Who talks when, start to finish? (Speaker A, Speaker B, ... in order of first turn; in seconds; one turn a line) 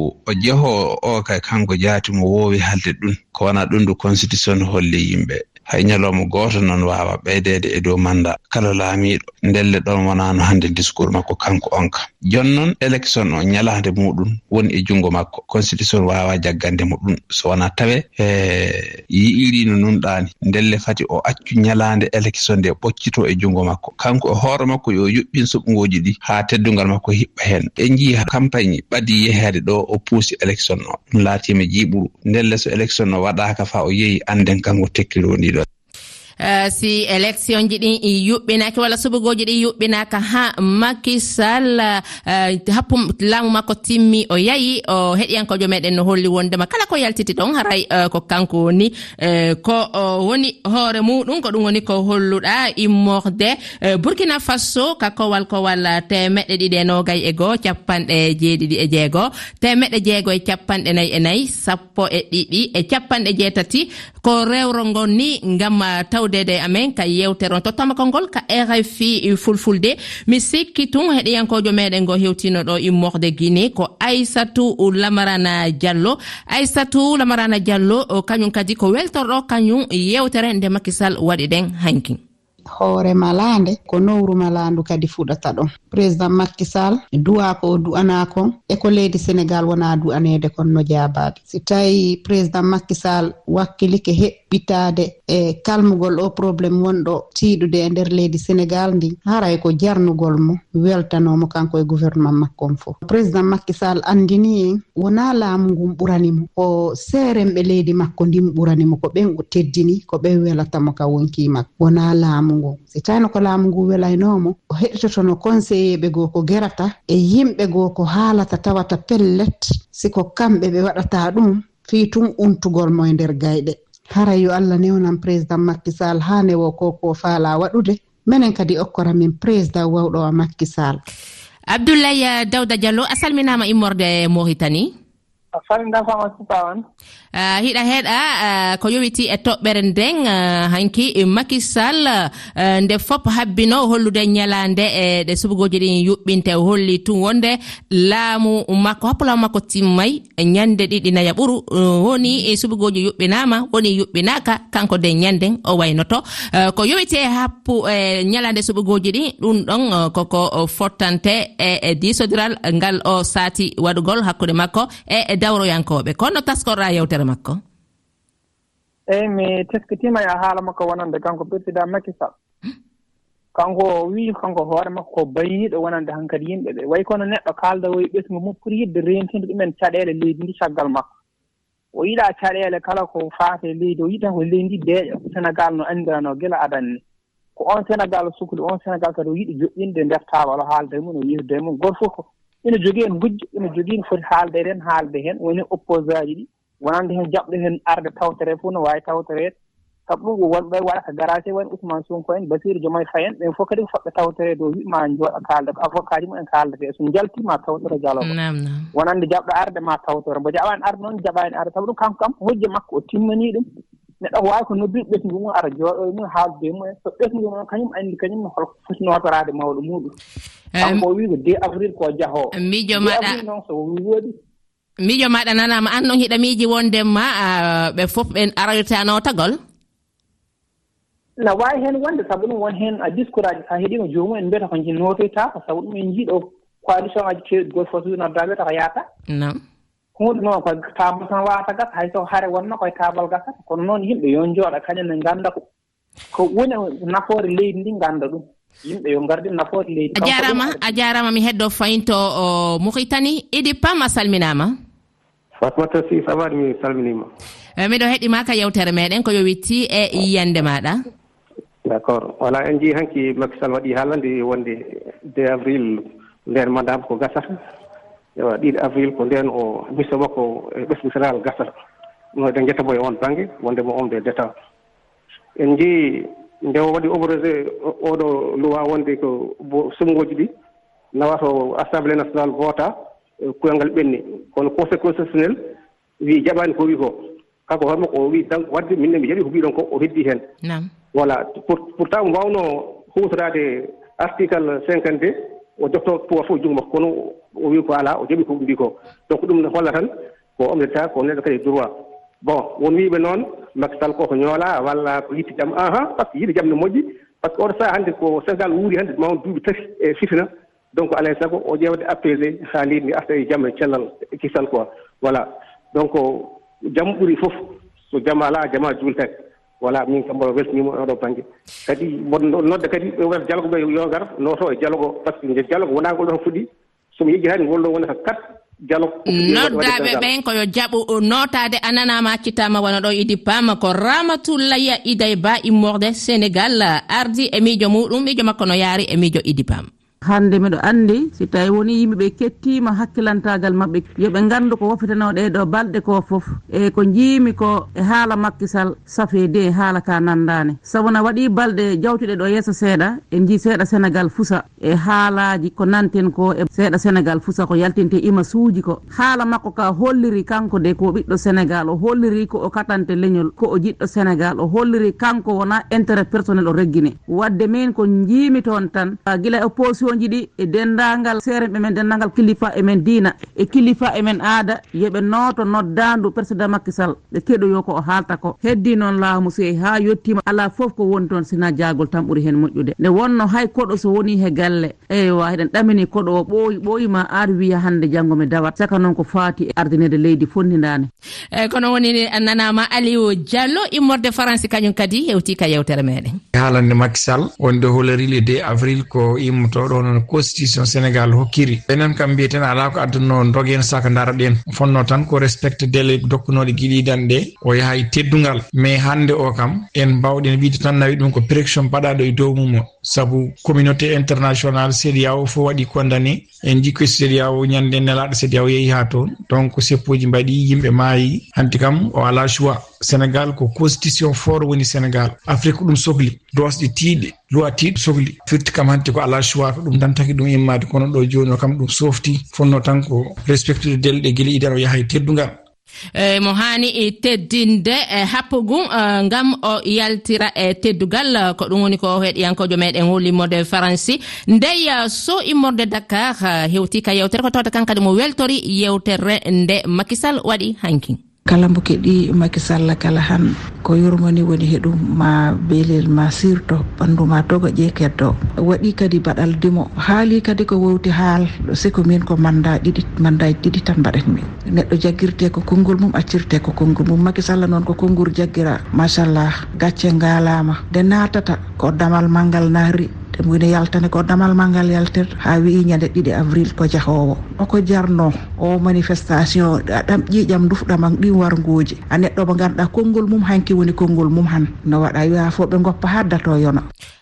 Speaker A: 0.3-35.6
Speaker B: 36.4-82.2
Speaker C: 82.8-131.0
Speaker B: 131.7-134.9
Speaker D: 135.5-136.8
Speaker B: 137.3-167.6
Speaker D: 169.1-172.3
Speaker D: 173.6-181.1
Speaker D: 181.9-187.0
Speaker D: 187.6-199.5
Speaker D: 200.1-208.3
Speaker B: 208.2-208.9
Speaker D: 208.9-213.7
Speaker D: 214.2-220.1
Speaker B: 220.8-221.0
Speaker D: 220.8-224.3
Speaker B: 222.5-223.4
Speaker B: 225.0-229.6
Speaker D: 231.4-239.0
Speaker B: 239.3-239.6
Speaker D: 240.2-245.6
Speaker D: 246.3-250.9
Speaker B: 250.2-254.8
Speaker A: 255.6-257.1
Speaker E: 256.9-257.2
Speaker B: 257.8-261.0
Speaker A: 262.1-264.6
Speaker E: 262.1-264.0
Speaker A: 265.4-265.7
Speaker E: 265.4-265.8
Speaker A: 266.5-267.2
Speaker E: 266.8-267.4
Speaker E: 268.6-270.4
Speaker E: 270.9-271.7
Speaker E: 272.5-274.5
Speaker E: 275.7-275.9
Speaker A: 276.7-276.9
Speaker E: 276.8-277.4
Speaker E: 278.1-279.2
Speaker E: 279.8-280.5
Speaker E: 281.2-282.8
Speaker E: 283.6-285.5
Speaker E: 286.3-287.1
Speaker E: 287.7-290.4
Speaker E: 291.2-292.6
Speaker E: 293.1-293.6
Speaker E: 294.2-295.3
Speaker E: 295.8-297.1
Speaker E: 297.7-300.1
Speaker E: 300.6-301.9
Speaker E: 302.5-310.5
Speaker E: 311.0-315.4
Speaker E: 317.0-317.5
Speaker E: 318.1-319.3
Speaker A: 318.2-319.1
Speaker E: 319.8-326.6
Speaker E: 327.2-328.4
Speaker E: 328.9-329.2
Speaker B: 329.3-339.9
Speaker F: 340.2-391.1
Speaker B: 391.5-396.4
Speaker G: 396.6-435.5
Speaker B: 436.2-451.2
Speaker H: 451.5-486.8